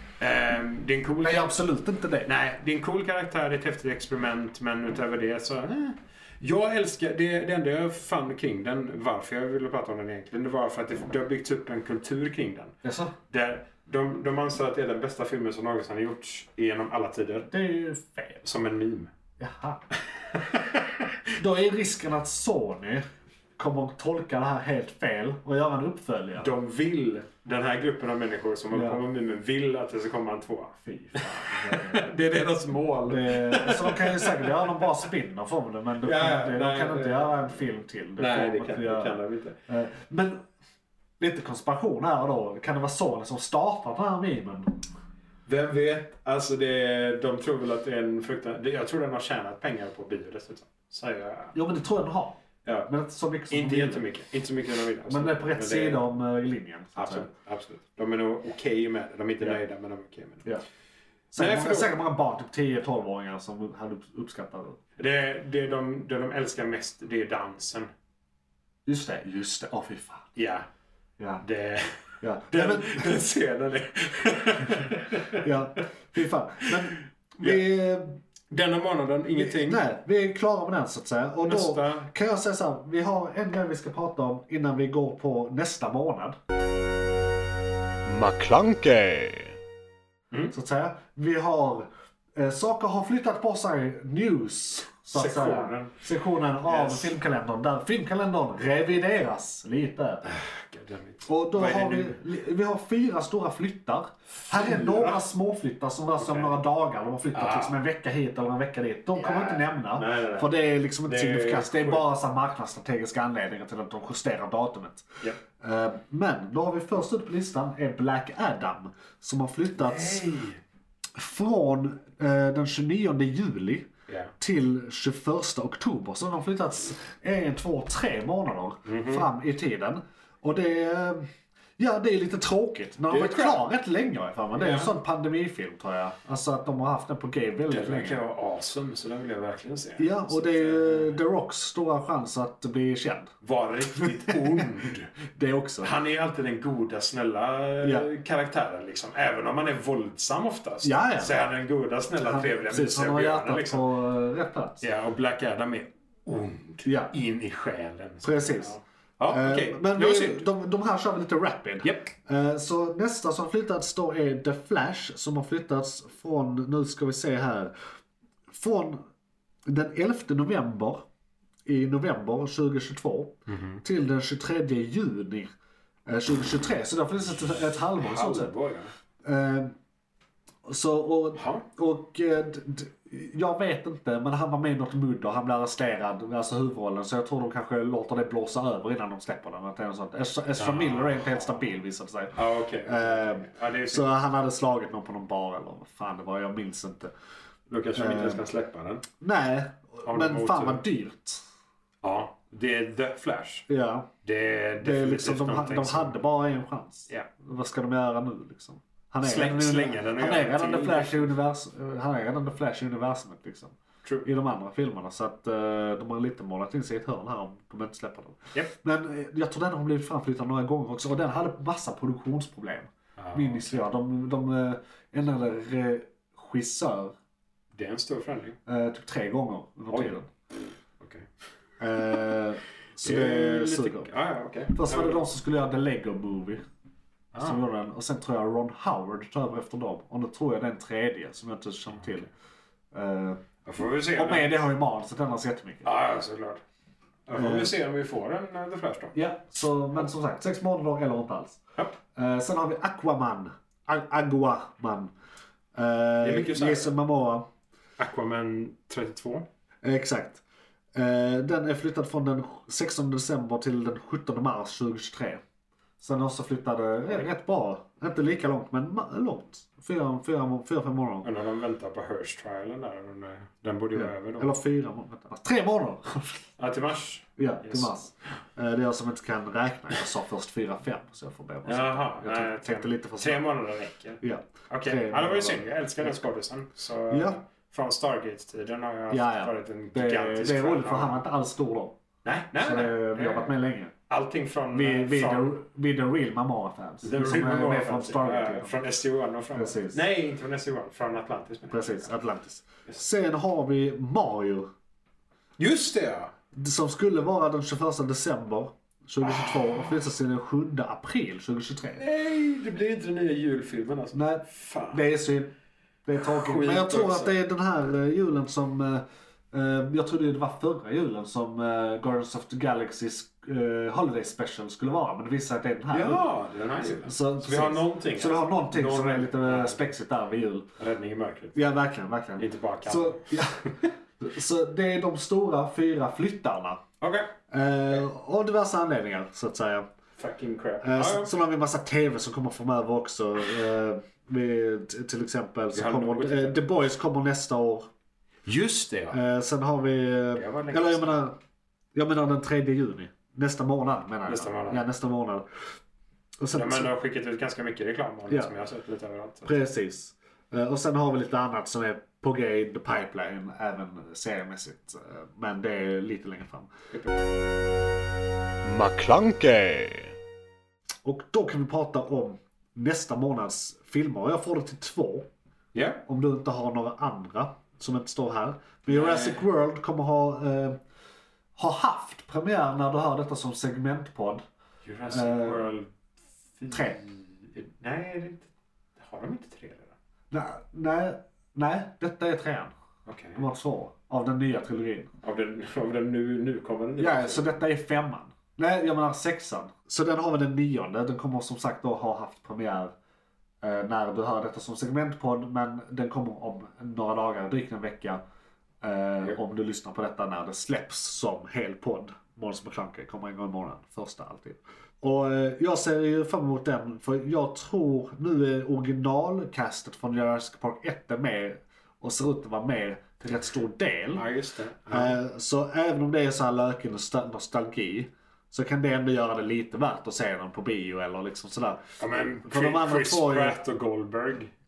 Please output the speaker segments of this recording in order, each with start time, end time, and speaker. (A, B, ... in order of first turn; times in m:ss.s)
0:00.2-0:01.6 A
0:01.2-0:02.3 B
0:02.2-0:12.7 A
0:12.8-0:13.1 B
0:13.3-0:17.5 A
0:17.5-0:18.4 B
0:18.4-0:19.1 A
0:19.4-0:19.8 B
0:20.1-0:21.1 A
0:21.4-0:23.0 B
0:23.6-0:26.5 B
0:26.4-0:35.0 A
0:28.7-0:29.0 B
0:30.8-0:32.1 B
0:33.1-0:40.4 B
0:36.0-0:37.6 A
0:38.2-0:39.6 A
0:41.2-0:44.8 B
0:45.5-0:51.5 A
0:51.5-0:54.1 B
0:52.6-0:52.9 A
0:53.5-0:56.0 A
0:55.0-0:57.3 B
0:57.0-1:00.4 A
1:01.3-1:04.8 B
1:01.4-1:01.9 A
1:05.0-1:07.9 A
1:08.8-1:10.3 B
1:10.3-1:10.7 A
1:11.2-1:11.4 B
1:11.4-1:15.8 A
1:12.2-1:13.1 B
1:15.3-1:18.2 B
1:16.6-1:17.6 A
1:18.5-1:19.8 A
1:19.4-1:26.3 B
1:21.4-1:22.1 A
1:28.0-1:29.6 B
1:30.5-1:40.2 B
1:35.1-1:36.0 A
1:36.6-1:37.1 A
1:40.2-1:42.2 A
1:41.2-2:00.2 B
1:44.3-1:45.2 A
1:46.2-1:46.6 A
1:47.3-1:47.8 A
1:49.1-1:52.1 A
1:59.8-2:00.6 A
2:01.1-2:03.9 B
2:04.1-2:04.3 A
2:04.4-2:11.2 B
2:08.8-2:09.3 A
2:11.8-2:18.2 B
2:13.1-2:13.6 A
2:14.5-2:14.9 A
2:17.7-2:21.2 A
2:20.0-2:23.3 B
2:23.4-2:25.2 A
2:24.0-2:24.6 B
2:25.3-2:25.9 B
2:25.8-2:33.9 A
2:27.8-2:28.1 B
2:30.8-2:31.5 B
2:32.2-2:34.8 B
2:34.8-2:40.5 A
2:36.8-2:37.1 B
2:38.2-2:38.8 B
2:39.3-2:47.7 B
2:41.8-2:42.1 A
2:48.5-2:49.0 B
2:49.7-2:51.0 B
2:51.6-2:55.5 B
2:53.5-2:53.8 A
2:56.1-2:58.5 B
2:58.0-2:58.9 A
2:59.2-2:59.7 B
3:00.6-3:17.1 B
3:01.4-3:01.6 A
3:10.6-3:11.6 A
3:12.3-3:14.1 A
3:17.7-3:19.0 A
3:17.9-3:18.4 B
3:19.2-3:21.4 B
3:20.0-3:20.8 A
3:22.0-3:23.6 A
3:23.7-3:24.1 B
3:24.2-3:26.2 A
3:24.8-3:33.7 B
3:29.2-3:31.3 A
3:34.2-3:47.1 B
3:43.2-3:43.9 A
3:47.7-3:48.6 A
3:48.7-3:50.3 B
3:49.9-3:50.2 A
3:51.0-3:51.2 A
3:51.8-3:54.1 B
3:53.0-3:55.2 A
3:54.7-3:56.6 B
3:57.3-3:57.6 A
3:57.4-4:02.3 B
4:02.9-4:03.4 B
4:03.6-4:04.5 A
4:04.1-4:05.9 B
4:05.8-4:06.6 A
4:07.3-4:09.1 A
4:07.3-4:07.7 B
4:09.1-4:11.6 B
4:12.1-4:15.1 B
4:15.7-4:17.4 B
4:16.2-4:16.9 A
4:18.0-4:19.4 A
4:19.8-4:20.4 B
4:20.9-4:25.4 B
4:26.0-4:31.3 B
4:31.2-4:34.6 A
4:33.9-4:36.4 B
4:36.6-4:37.9 A
4:37.4-4:43.5 B
4:41.6-4:51.2 A
4:44.2-4:46.2 B
4:47.1-4:47.4 B
4:49.1-4:52.0 B
4:52.2-4:53.6 A
4:52.6-4:53.9 B
4:54.1-4:55.5 A
4:54.7-4:58.7 B
4:57.0-5:02.1 A
4:59.5-5:00.0 B
5:01.7-5:04.6 B
5:05.6-5:06.3 A
5:06.5-5:12.0 B
5:09.2-5:09.9 A
5:12.0-5:15.0 A
5:14.1-5:15.5 B
5:16.0-5:30.7 B
5:16.2-5:17.3 A
5:25.9-5:29.9 A
5:30.8-5:31.6 A
5:31.5-5:33.7 B
5:32.4-5:33.8 A
5:34.2-5:36.8 B
5:37.0-5:37.3 A
5:37.5-5:39.9 B
5:40.2-5:41.3 A
5:40.8-5:47.9 B
5:45.7-5:46.6 A
5:48.4-5:49.2 A
5:49.1-5:51.4 B
5:50.3-5:51.2 A
5:51.9-5:55.4 B
5:54.3-5:54.8 A
5:56.4-5:56.9 B
5:56.5-5:59.6 A
5:59.4-6:06.7 B
6:06.9-6:07.2 A
6:08.6-6:10.1 B
6:11.0-6:15.3 B
6:15.7-6:16.0 A
6:16.1-6:20.8 B
6:18.9-6:19.4 A
6:21.6-6:24.4 B
6:24.8-6:25.9 A
6:25.1-6:25.7 B
6:26.6-6:29.9 A
6:26.7-6:27.0 B
6:30.3-6:32.7 B
6:33.0-6:33.4 A
6:33.4-6:35.1 B
6:35.2-6:37.5 A
6:37.0-6:42.9 B
6:43.6-6:48.2 B
6:48.8-7:04.2 B
7:04.1-7:05.2 A
7:04.9-7:13.6 B
7:12.0-7:14.5 A